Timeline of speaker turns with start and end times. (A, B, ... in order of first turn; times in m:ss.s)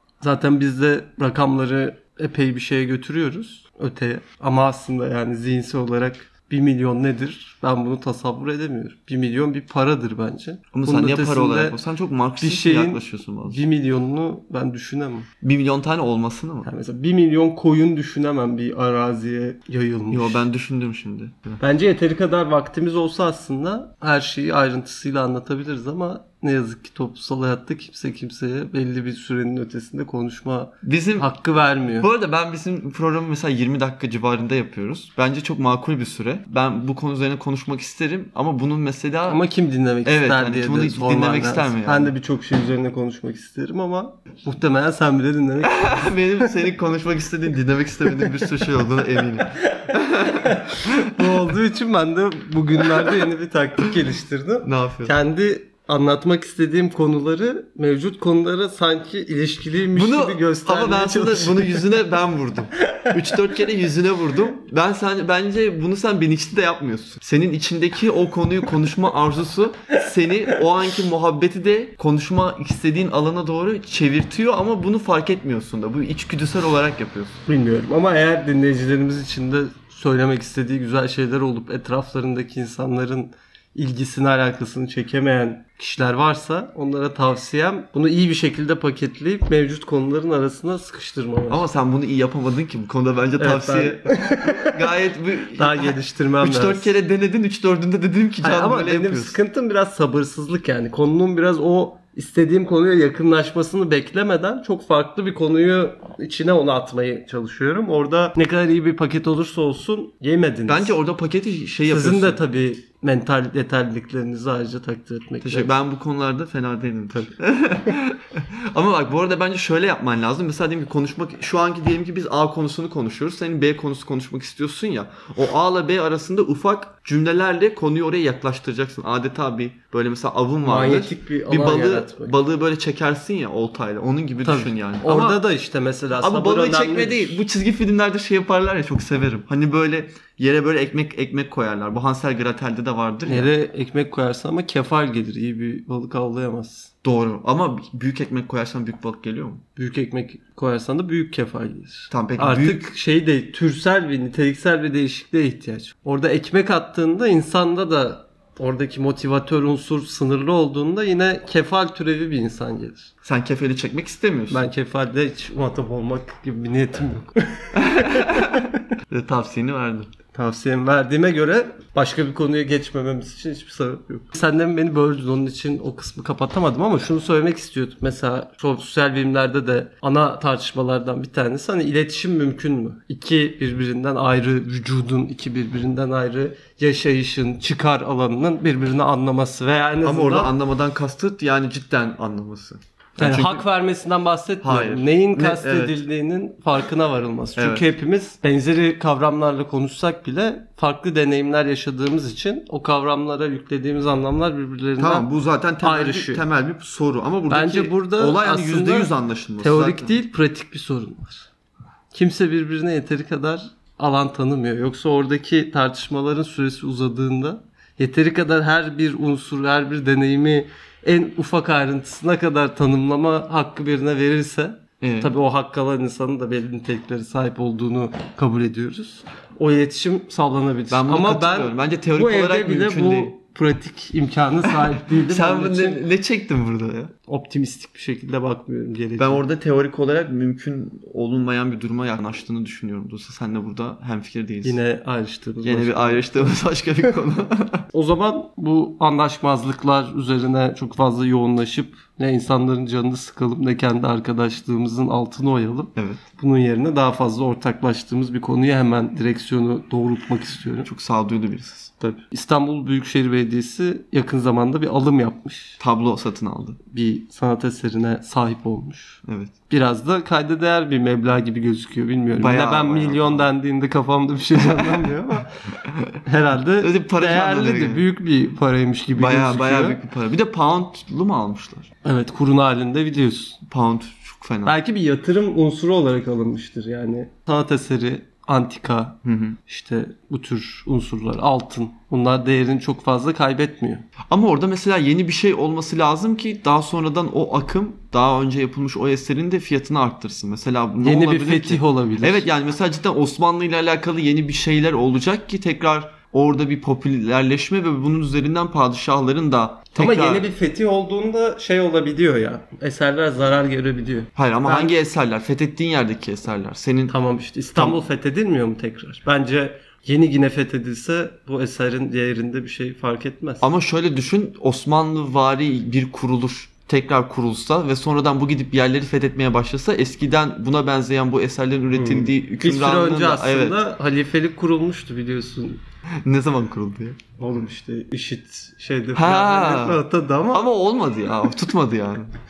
0:00.2-0:11.8 A
0:10.7-0:13.6 B
0:12.4-0:15.3 A
0:15.4-0:16.7 B
0:16.6-0:20.5 A
0:20.1-0:21.6 B
0:21.6-0:32.1 A
0:30.8-0:31.3 B
0:32.0-0:39.4 B
0:39.3-0:46.1 A
0:40.0-0:42.1 B
0:45.6-0:51.5 B
0:50.3-1:01.9 A
0:54.6-0:55.2 B
1:00.0-1:17.4 B
1:17.5-1:31.6 A
1:31.5-1:39.4 B
1:33.4-1:34.8 A
1:35.6-1:36.9 A
1:38.4-1:51.0 A
1:50.7-1:52.4 B
1:51.9-1:55.7 A
1:55.4-2:15.4 B
2:10.6-2:12.3 A
2:14.4-2:17.4 A
2:16.2-2:23.5 B
2:23.2-2:26.9 A
2:27.0-2:29.6 B
2:29.8-2:43.1 A
2:32.1-2:32.8 B
2:43.2-2:44.7 B
2:44.5-2:48.8 A
2:47.7-2:50.1 B
2:50.3-3:10.5 A
3:10.0-3:13.6 B
3:13.2-3:25.3 A
3:14.6-3:16.0 B
3:17.6-3:17.8 B
3:25.0-3:30.1 B
3:25.8-3:26.4 A
3:27.5-3:31.5 A
3:32.1-3:56.0 A
3:45.0-3:45.3 B
3:50.9-3:53.3 B
3:55.1-3:57.1 B
3:57.3-3:59.4 A
3:59.2-4:04.8 B
4:04.6-4:06.6 A
4:05.6-4:07.9 B
4:07.9-4:20.9 A
4:16.0-4:16.2 B
4:20.8-4:21.9 B
4:22.0-4:25.8 A
4:25.8-4:26.8 B
4:26.9-4:35.5 A
4:29.2-4:29.5 B
4:32.4-4:33.5 B
4:34.6-4:35.1 B
4:35.8-4:36.2 B
4:36.2-4:40.0 A
4:36.8-4:38.0 B
4:39.2-4:41.9 B
4:42.0-4:43.6 A
4:43.6-4:44.8 B
4:44.6-4:54.1 A
4:49.2-4:49.6 B
4:54.3-5:10.5 B
5:01.0-5:02.5 A
5:10.0-5:15.0 A
5:14.4-5:17.2 B
5:17.1-5:23.7 A
5:23.6-5:33.8 B
5:31.9-5:35.8 A
5:36.2-5:37.2 B
5:37.4-5:40.7 A
5:39.2-5:42.3 B